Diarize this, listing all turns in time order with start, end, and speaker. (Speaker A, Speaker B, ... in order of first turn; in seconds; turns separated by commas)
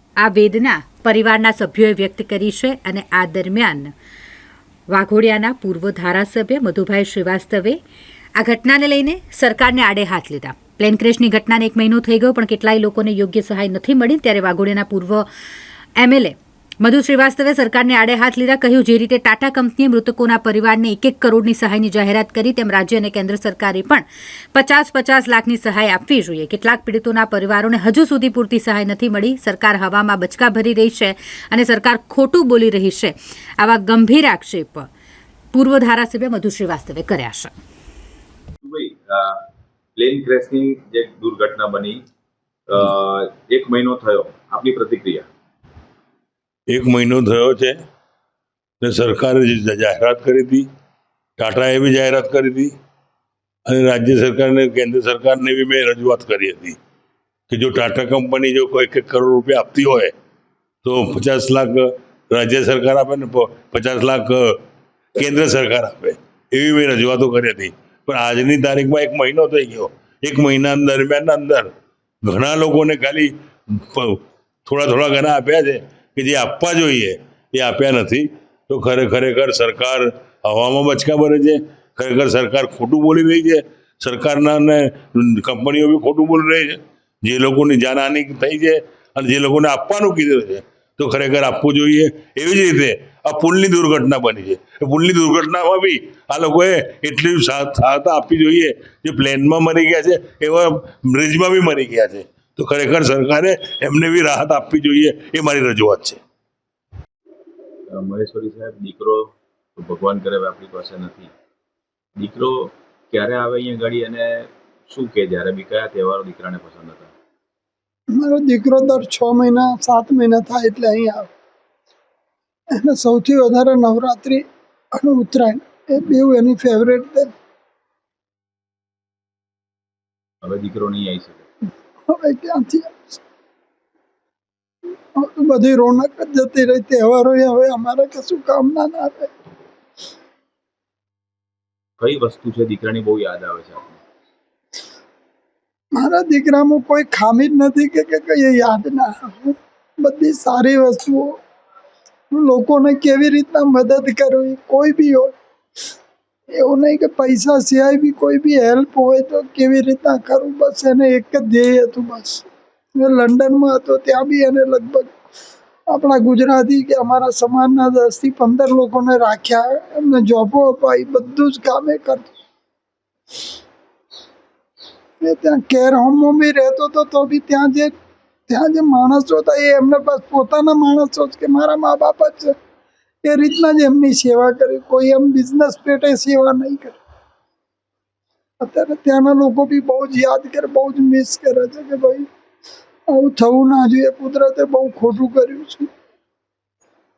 Speaker A: 0.2-3.9, Speaker A: 4.9-7.8, Speaker A: 8.4-15.3, Speaker A: 16.0-34.9, Speaker A: 35.5-37.5, Speaker B: 38.6-39.4, Speaker B: 40.0-42.0, Speaker B: 42.7-45.3, Speaker C: 46.7-47.8, Speaker C: 48.8-50.7, Speaker C: 51.4-52.7, Speaker C: 53.7-56.8, Speaker C: 57.5-60.1, Speaker C: 60.8-64.6, Speaker C: 65.2-71.7, Speaker C: 72.2-106.2, Speaker B: 107.9-111.3, Speaker B: 112.2-117.1, Speaker D: 118.1-121.3, Speaker D: 122.7-127.3, Speaker B: 130.4-131.4, Speaker D: 132.1-133.2, Speaker D: 135.2-139.3, Speaker B: 142.0-144.0, Speaker D: 145.9-151.4, Speaker D: 152.3-155.3, Speaker D: 156.5-165.1, Speaker D: 165.9-172.3, Speaker D: 175.2-177.9, Speaker D: 178.5-182.6, Speaker D: 183.2-187.0, Speaker D: 188.6-192.3, Speaker D: 193.1-195.9